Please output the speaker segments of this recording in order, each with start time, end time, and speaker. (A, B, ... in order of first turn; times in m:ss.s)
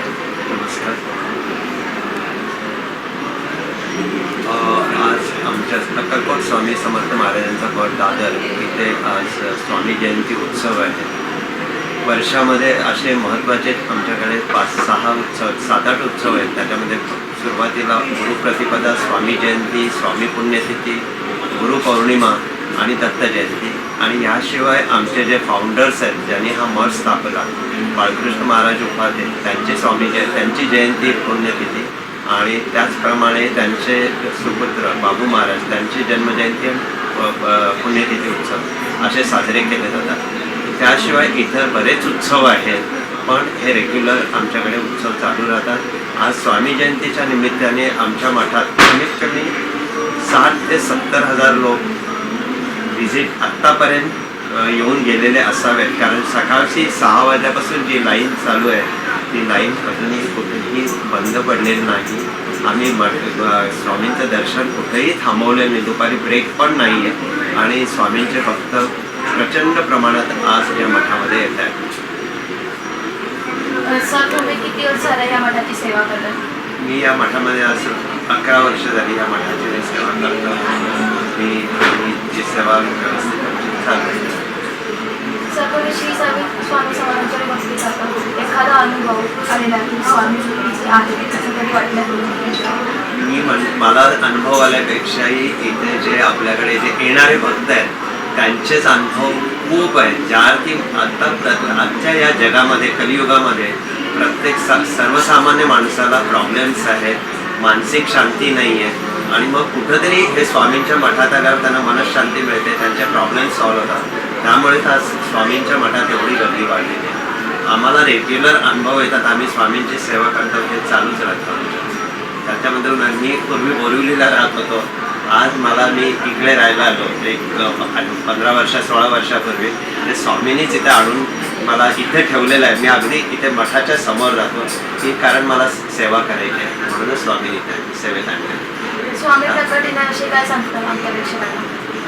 0:00.5-0:01.0 A
0:04.4-0:11.1 A
0:12.0-0:49.5 A
0:50.2-0:51.8 A
0:52.9-1:11.8 A
1:13.8-1:16.4 B
1:16.8-1:24.4 A
1:25.5-1:32.3 B
1:33.1-1:57.2 A
1:57.7-2:18.6 A
2:19.1-2:21.7 B